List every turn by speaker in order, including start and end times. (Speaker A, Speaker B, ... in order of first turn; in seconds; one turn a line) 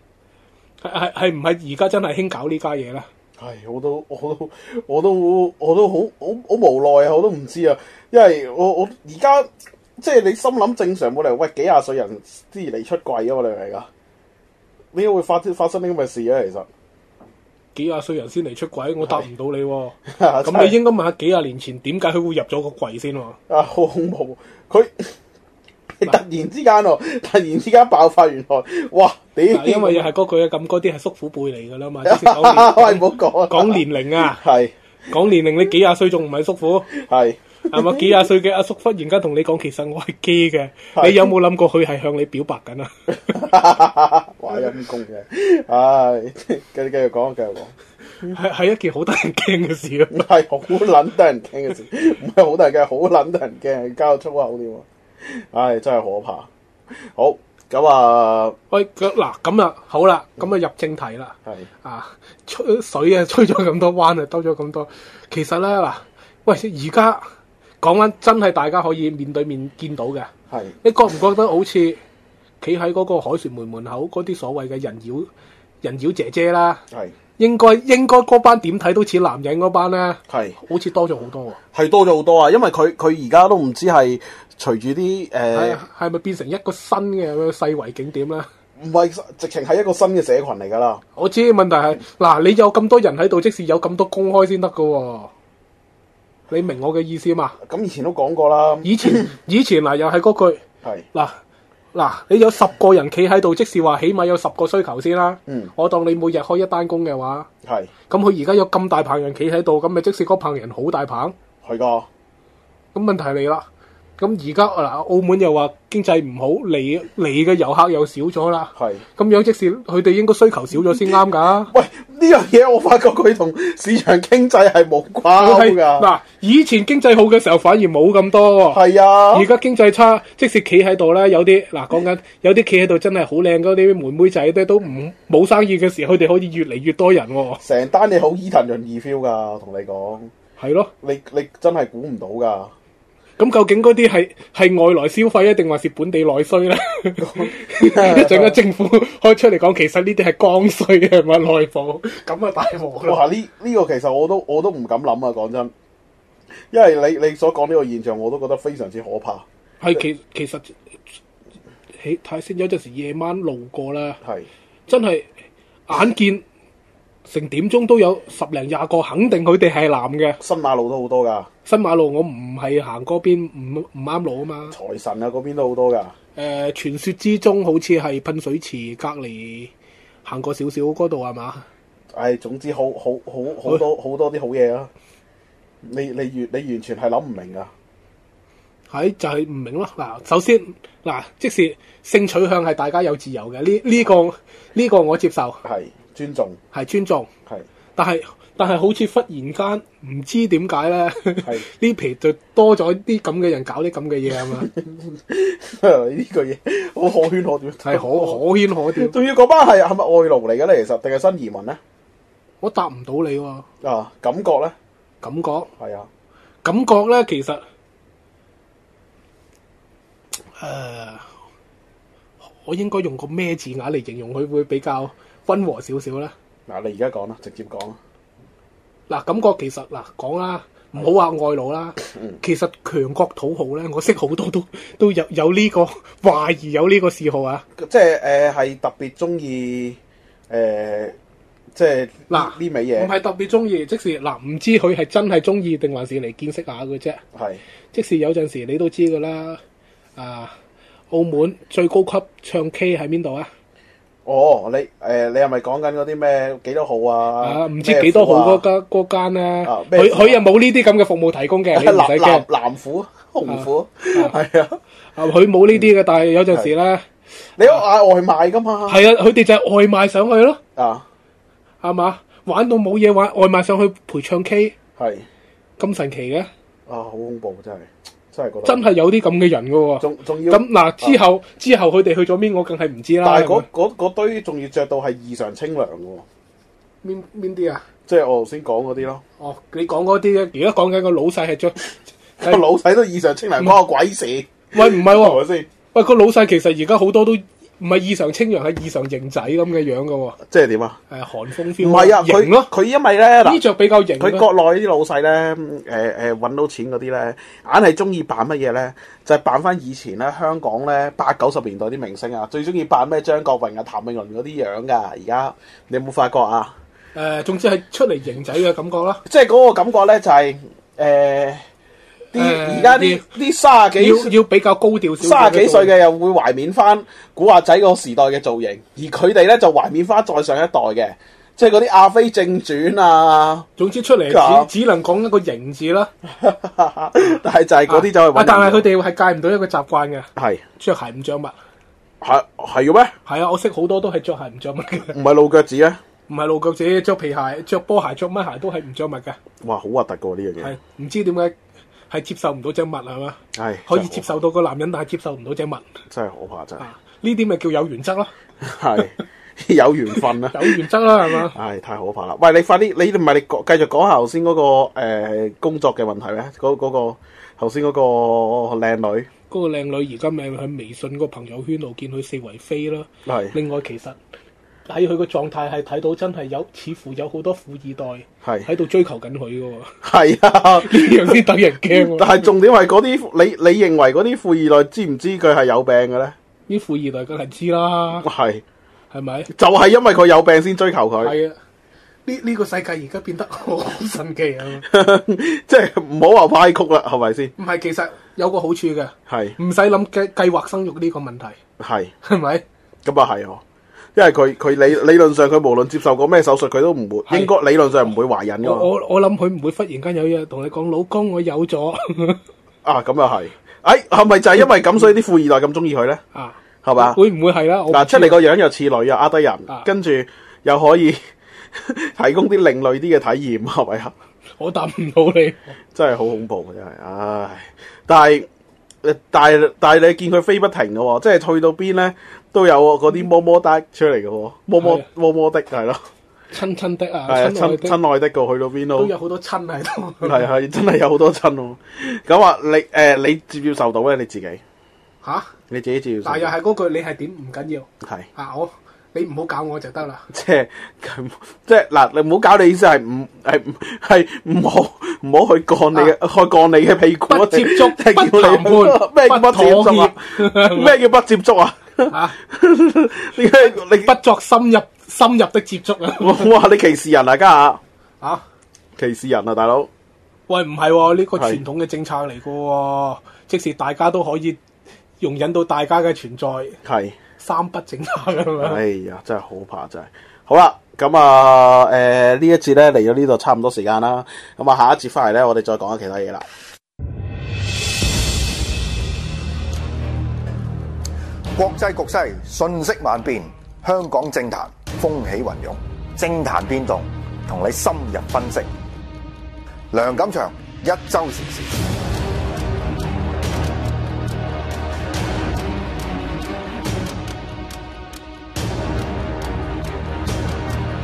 Speaker A: 0.8-3.1
Speaker B: 3.4-13.9
Speaker B: 14.9-16.7
Speaker A: 17.7-23.4
Speaker B: 20.1-20.8
Speaker B: 23.5-25.1
Speaker B: 25.9-30.1
Speaker A: 29.5-34.4
Speaker B: 32.0-34.7
Speaker A: 35.1-36.9
Speaker B: 36.9-38.1
Speaker A: 37.7-42.9
Speaker B: 41.0-41.3
Speaker B: 43.1-47.7
Speaker A: 48.2-50.2
Speaker B: 50.1-56.5
Speaker B: 57.0-58.5
Speaker A: 58.7-67.2
Speaker A: 67.8-70.3
Speaker B: 70.5-70.7
Speaker A: 70.8-72.0
Speaker A: 72.6-75.3
Speaker A: 75.8-76.8
Speaker A: 77.4-81.6
Speaker B: 80.3-80.5
Speaker B: 81.7-85.8
Speaker A: 85.5-88.5
Speaker B: 88.8-91.0
Speaker A: 91.2-95.3
Speaker A: 96.5-97.5
Speaker B: 97.6-99.3
Speaker A: 98.8-100.6
Speaker A: 101.1-101.4
Speaker A: 101.9-107.5
Speaker B: 105.5-105.7
Speaker B: 107.6-107.9
Speaker A: 108.1-111.3
Speaker B: 111.6-112.1
Speaker A: 112.9-113.7
Speaker A: 114.2-121.7
Speaker B: 118.8-119.0
Speaker B: 121.7-126.1
Speaker A: 125.3-128.8
Speaker B: 128.7-129.5
Speaker A: 129.3-137.6
Speaker B: 137.6-140.3
Speaker A: 140.6-140.9
Speaker B: 141.0-142.7
Speaker A: 143.4-153.2
Speaker B: 147.2-148.6
Speaker B: 153.0-155.7
Speaker B: 156.7-159.4
Speaker A: 159.8-160.7
Speaker A: 162.0-164.2
Speaker B: 164.2-164.5
Speaker A: 164.9-165.3
Speaker A: 165.9-166.4
Speaker A: 167.3-170.4
Speaker B: 170.4-171.5
Speaker A: 171.7-174.8
Speaker B: 174.7-176.1
Speaker A: 176.3-179.7
Speaker A: 180.2-181.7
Speaker B: 182.1-184.9
Speaker B: 185.8-187.7
Speaker A: 188.9-195.6
Speaker B: 195.6-196.6
Speaker A: 196.7-197.3
Speaker A: 197.9-204.7
Speaker B: 204.4-208.4
Speaker A: 207.8-209.2
Speaker B: 208.9-211.8
Speaker A: 212.6-213.6
Speaker B: 213.8-214.7
Speaker A: 215.2-215.7
Speaker B: 215.8-216.1
Speaker A: 216.6-217.6
Speaker A: 220.6-221.2
Speaker A: 222.4-226.3
Speaker B: 226.7-228.0
Speaker A: 229.1-237.6
Speaker B: 237.8-240.0
Speaker B: 240.5-241.2
Speaker B: 241.7-243.1
Speaker A: 242.3-247.2
Speaker B: 247.3-247.6
Speaker A: 247.9-249.6
Speaker A: 250.2-250.5
Speaker A: 251.1-253.5
Speaker B: 254.2-258.6
Speaker A: 257.4-262.4
Speaker B: 259.6-260.4
Speaker B: 261.7-264.8
Speaker A: 263.5-264.3
Speaker A: 265.1-267.1
Speaker B: 267.6-269.0
Speaker A: 268.9-270.6
Speaker B: 270.8-271.0
Speaker A: 271.8-274.8
Speaker B: 275.0-275.2
Speaker A: 275.8-276.5
Speaker B: 276.9-278.9
Speaker A: 278.6-283.6
Speaker B: 280.0-281.2
Speaker B: 283.2-286.2
Speaker A: 287.0-287.8
Speaker B: 288.1-289.2
Speaker A: 289.4-291.8
Speaker B: 292.4-295.7
Speaker A: 294.7-295.4
Speaker A: 295.9-300.4
Speaker B: 300.5-301.0
Speaker A: 301.1-302.7
Speaker B: 301.8-303.6
Speaker A: 303.4-304.5
Speaker B: 304.2-316.7
Speaker A: 317.1-319.2
Speaker B: 319.2-321.6
Speaker B: 322.3-324.3
Speaker A: 322.3-323.2
Speaker A: 324.0-325.9
Speaker B: 325.2-333.7
Speaker A: 333.8-336.1
Speaker B: 334.3-334.7
Speaker B: 336.3-338.9
Speaker A: 337.9-341.5
Speaker B: 340.4-340.6
Speaker B: 342.2-343.1
Speaker A: 343.2-345.1
Speaker B: 345.1-346.0
Speaker A: 346.3-349.4
Speaker B: 349.6-350.7
Speaker A: 350.6-351.5
Speaker A: 352.1-355.8
Speaker B: 353.5-354.3
Speaker B: 356.1-356.8
Speaker A: 356.8-358.3
Speaker B: 358.6-360.8
Speaker A: 360.5-361.6
Speaker B: 361.5-369.3
Speaker A: 369.5-374.2
Speaker B: 373.2-373.5
Speaker A: 374.9-379.9
Speaker B: 380.0-386.3
Speaker A: 380.8-382.4
Speaker A: 386.7-388.3
Speaker B: 388.2-388.6
Speaker A: 389.1-389.5
Speaker B: 389.5-391.3
Speaker A: 391.2-391.5
Speaker A: 392.2-394.9
Speaker B: 394.9-397.5
Speaker A: 397.6-401.6
Speaker B: 399.3-399.6
Speaker B: 401.8-402.1
Speaker A: 402.2-402.6
Speaker B: 403.0-403.6
Speaker B: 404.1-408.9
Speaker A: 408.6-412.4
Speaker B: 412.8-416.2
Speaker A: 416.3-418.4
Speaker B: 416.8-417.2
Speaker B: 417.9-421.2
Speaker B: 421.7-424.1
Speaker A: 424.6-425.7
Speaker B: 425.9-428.5
Speaker B: 429.0-436.0
Speaker A: 434.8-435.1
Speaker A: 436.5-437.9
Speaker B: 437.3-439.1
Speaker A: 438.9-440.4
Speaker B: 440.2-444.6
Speaker A: 445.2-445.5
Speaker B: 445.7-446.5
Speaker A: 446.2-450.2
Speaker B: 448.0-448.3
Speaker B: 450.3-464.1
Speaker A: 457.3-460.9
Speaker A: 462.1-462.4
Speaker A: 463.9-466.5
Speaker B: 466.2-467.8
Speaker B: 469.0-469.9
Speaker A: 470.5-474.6
Speaker B: 471.4-471.6
Speaker A: 475.2-476.8
Speaker B: 476.8-477.1
Speaker A: 477.4-478.8
Speaker B: 478.6-486.4
Speaker C: 491.5-498.7
Speaker C: 499.9-501.8